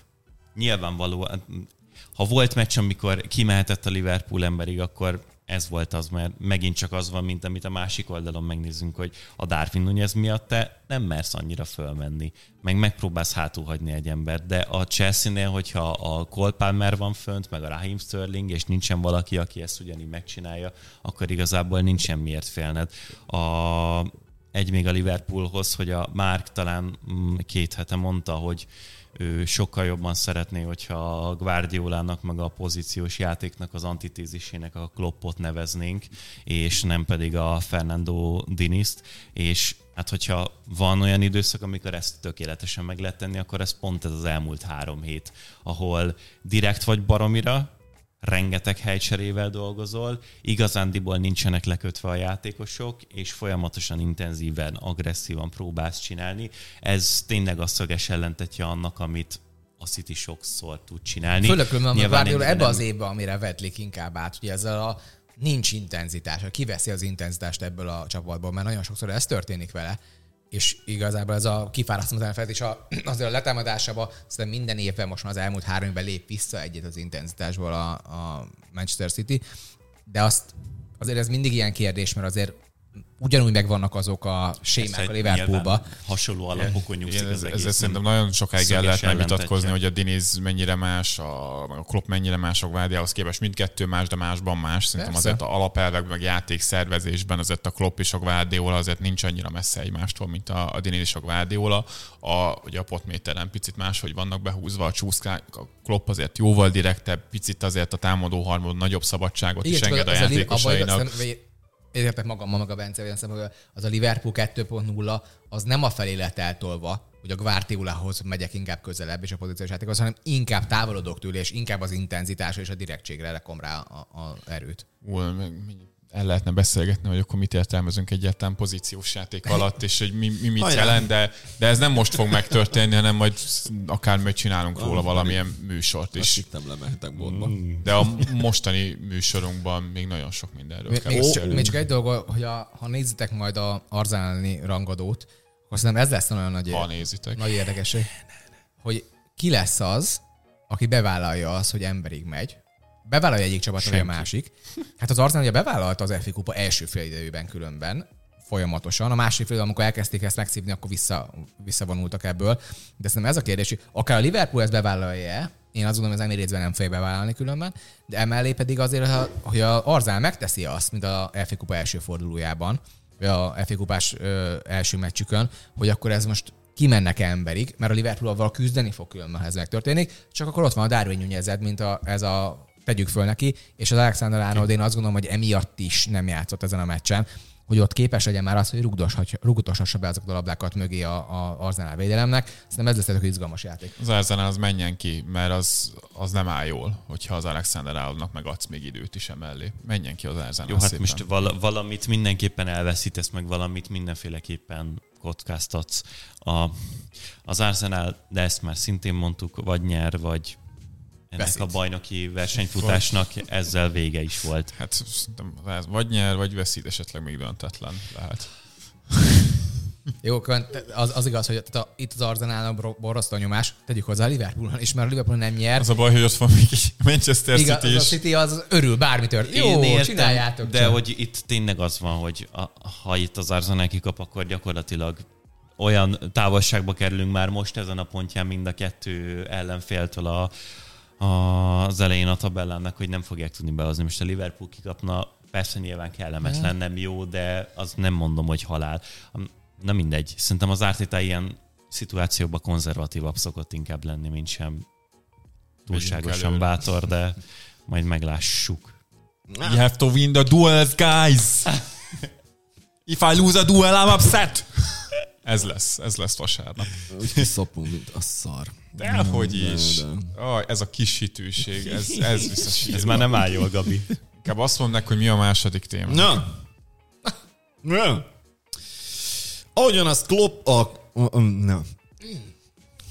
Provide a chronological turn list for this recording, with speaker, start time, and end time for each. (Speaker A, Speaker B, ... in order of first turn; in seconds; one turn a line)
Speaker A: 0.5-47.7
Speaker A: 48.2-62.8
Speaker B: 61.4-70.0
Speaker B: 70.5-79.4
Speaker B: 80.1-82.6
Speaker B: 83.2-85.9
Speaker A: 84.8-88.0
Speaker C: 86.5-111.2
Speaker A: 88.6-89.8
Speaker B: 95.0-95.4
Speaker B: 109.6-124.8
Speaker C: 125.0-136.4
Speaker D: 130.6-131.1
Speaker D: 134.7-135.5
Speaker D: 136.1-137.7
Speaker A: 137.2-137.8
Speaker C: 137.8-141.8
Speaker B: 140.9-148.1
Speaker D: 141.1-141.7
Speaker C: 146.7-147.6
Speaker B: 148.8-194.0
Speaker C: 153.8-154.3
Speaker C: 194.0-201.2
Speaker A: 200.6-210.6
Speaker A: 211.3-214.7
Speaker B: 211.4-211.7
Speaker C: 212.8-213.1
Speaker C: 214.7-218.5
Speaker B: 220.2-225.9
Speaker C: 225.8-228.2
Speaker B: 227.5-231.0
Speaker A: 229.5-235.2
Speaker A: 235.8-240.5
Speaker A: 241.2-254.8
Speaker A: 255.8-258.9
Speaker C: 255.9-256.7
Speaker D: 259.5-259.8
Speaker C: 259.6-261.8
Speaker C: 263.1-267.1
Speaker D: 267.1-270.3
Speaker C: 269.0-273.4
Speaker D: 271.8-273.9
Speaker A: 272.9-274.1
Speaker C: 274.4-276.4
Speaker D: 276.1-276.5
Speaker D: 277.8-278.2
Speaker D: 279.7-281.9